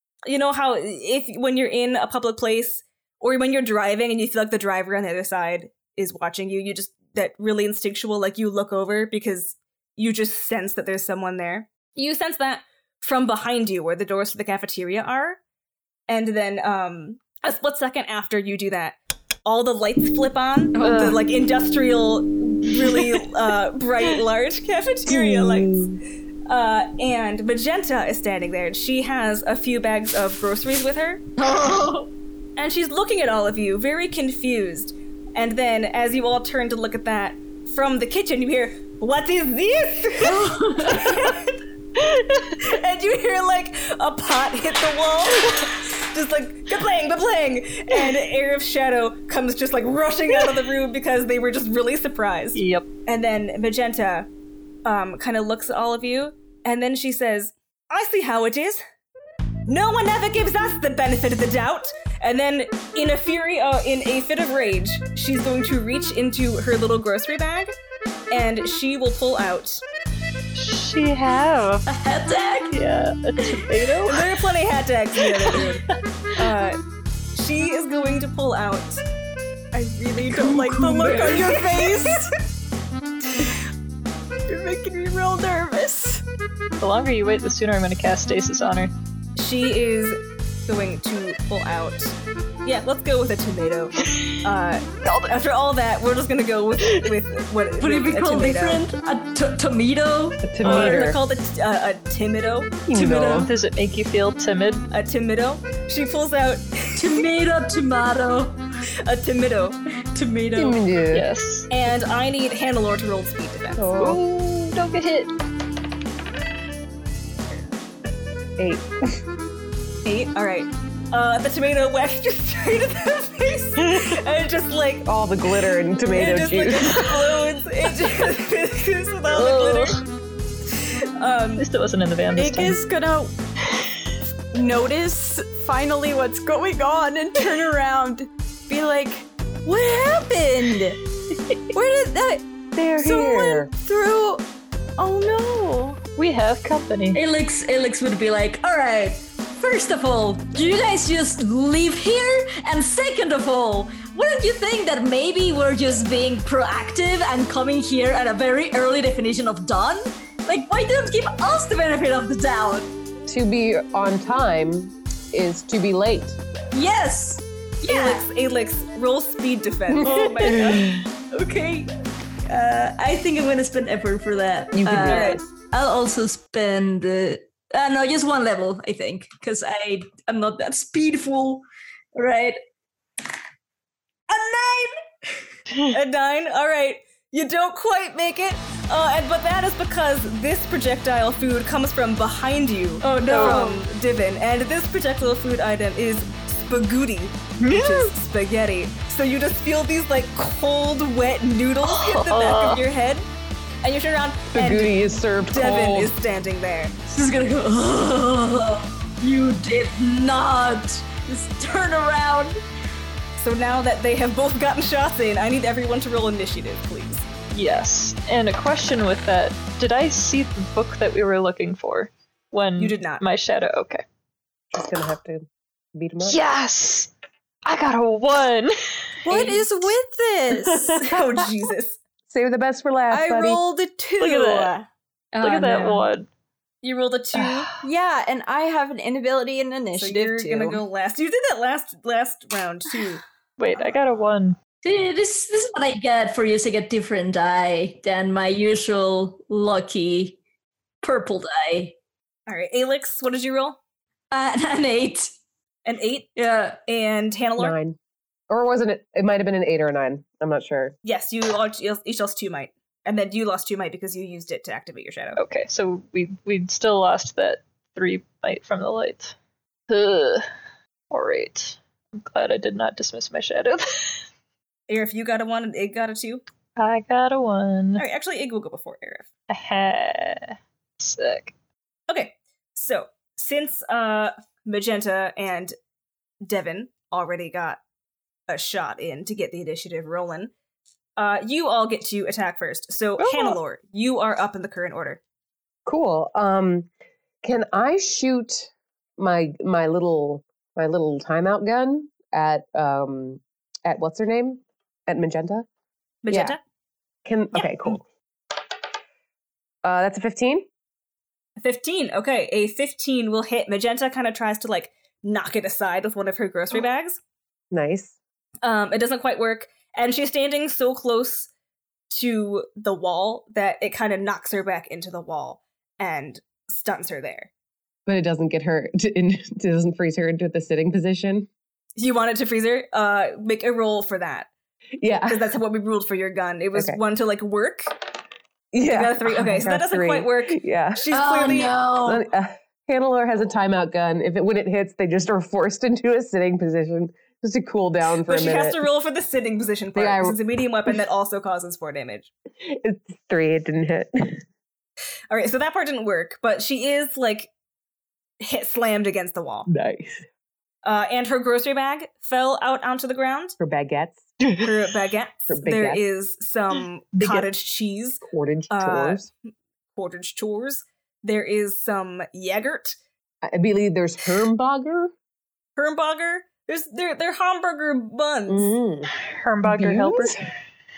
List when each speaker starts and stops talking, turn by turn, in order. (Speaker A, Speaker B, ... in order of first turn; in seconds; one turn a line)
Speaker A: 0.3-15.4
Speaker A: 16.1-25.9
Speaker B: 20.8-21.2
Speaker C: 25.1-26.0
Speaker A: 26.5-31.2
Speaker B: 31.4-32.1
Speaker A: 32.6-41.6
Speaker B: 40.2-41.3
Speaker A: 42.5-54.3
Speaker D: 52.5-52.9
Speaker A: 54.9-58.8
Speaker A: 59.7-67.7
Speaker A: 68.3-69.8
Speaker D: 70.5-71.9
Speaker B: 71.9-72.8
Speaker D: 72.7-74.2
Speaker A: 74.1-75.8
Speaker D: 75.3-75.8
Speaker A: 76.4-76.8
Speaker A: 77.3-79.0
Speaker E: 79.7-82.3
Speaker B: 80.2-82.0
Speaker E: 84.5-86.2
Speaker D: 86.8-88.9
Speaker A: 89.4-98.8
Speaker B: 97.8-101.1
Speaker C: 100.4-101.2
Speaker A: 100.6-102.8
Speaker C: 102.9-103.5
Speaker B: 102.9-103.5
Speaker D: 103.4-104.9
Speaker A: 104.9-107.2
Speaker B: 107.0-108.6
Speaker A: 109.0-109.8
Speaker B: 110.1-110.8
Speaker C: 110.5-111.3
Speaker D: 111.1-111.7
Speaker A: 111.7-113.9
Speaker C: 113.8-114.2
Speaker D: 114.0-115.3
Speaker C: 118.6-118.9
Speaker A: 120.0-125.1
Speaker D: 123.9-124.1
Speaker C: 125.0-127.1
Speaker A: 126.1-130.0
Speaker D: 129.3-130.0
Speaker A: 131.2-131.7
Speaker D: 131.6-132.8
Speaker E: 132.4-133.3
Speaker E: 134.5-141.0
Speaker E: 141.7-142.4
Speaker C: 142.8-143.7
Speaker E: 143.0-144.4
Speaker E: 145.0-146.0
Speaker D: 146.2-147.2
Speaker B: 147.1-162.9
Speaker C: 163.3-166.4
Speaker B: 166.7-168.2
Speaker A: 167.9-170.8
Speaker B: 170.0-171.9
Speaker B: 172.5-182.6
Speaker C: 174.7-175.4
Speaker A: 175.0-175.4
Speaker B: 184.3-184.9
Speaker A: 185.9-203.3
Speaker B: 193.0-193.8
Speaker D: 193.3-193.8
Speaker D: 197.6-198.1
Speaker D: 201.8-202.8
Speaker A: 203.8-206.9
Speaker C: 204.5-206.1
Speaker B: 207.1-212.6
Speaker A: 213.4-217.2
Speaker D: 217.5-224.0
Speaker A: 222.8-223.2
Speaker C: 224.7-226.4
Speaker D: 226.2-227.1
Speaker D: 227.7-229.9
Speaker E: 229.2-231.1
Speaker D: 230.7-231.1
Speaker A: 231.0-232.0
Speaker C: 232.3-233.6
Speaker E: 233.1-234.7
Speaker A: 234.2-234.9
Speaker D: 234.2-234.7
Speaker B: 235.3-236.1
Speaker D: 235.4-236.3
Speaker A: 236.8-237.7
Speaker D: 237.4-237.8
Speaker E: 237.8-240.8
Speaker A: 240.0-243.2
Speaker D: 243.6-244.6
Speaker B: 244.8-250.4
Speaker B: 251.0-251.9
Speaker A: 252.5-253.8
Speaker B: 254.3-255.3
Speaker A: 255.9-256.3
Speaker B: 256.4-256.8
Speaker A: 256.9-257.8
Speaker C: 257.6-258.0
Speaker C: 258.5-260.9
Speaker A: 261.1-265.4
Speaker D: 265.4-269.4
Speaker D: 269.9-270.5
Speaker D: 271.1-274.2
Speaker A: 274.9-276.4
Speaker D: 276.8-278.1
Speaker A: 278.0-279.3
Speaker D: 279.5-281.5
Speaker A: 282.1-285.7
Speaker A: 286.4-287.8
Speaker A: 288.5-290.5
Speaker A: 291.2-295.2
Speaker D: 293.2-293.6
Speaker C: 295.9-296.9
Speaker C: 297.4-305.7
Speaker A: 306.2-306.6
Speaker C: 306.3-306.6
Speaker C: 307.2-308.0
Speaker C: 309.8-310.7
Speaker A: 311.6-317.2
Speaker C: 317.7-318.1
Speaker A: 318.6-321.5
Speaker A: 322.1-327.5
Speaker C: 328.1-331.5
Speaker A: 332.0-334.5
Speaker C: 335.0-335.5
Speaker A: 335.3-338.0
Speaker C: 338.7-341.0
Speaker A: 338.9-341.8
Speaker B: 341.1-342.2
Speaker C: 342.0-348.8
Speaker A: 348.3-352.3
Speaker C: 350.0-350.4
Speaker C: 352.6-354.4
Speaker A: 355.3-357.5
Speaker A: 358.4-359.7
Speaker C: 359.7-360.2
Speaker A: 360.8-363.6
Speaker C: 363.6-364.3
Speaker A: 364.6-369.3
Speaker C: 365.5-366.0
Speaker D: 367.2-367.5
Speaker C: 368.2-369.3
Speaker A: 370.0-373.0
Speaker C: 373.4-375.1
Speaker A: 375.8-378.8
Speaker C: 378.5-379.1
Speaker D: 379.2-380.5
Speaker C: 379.6-380.4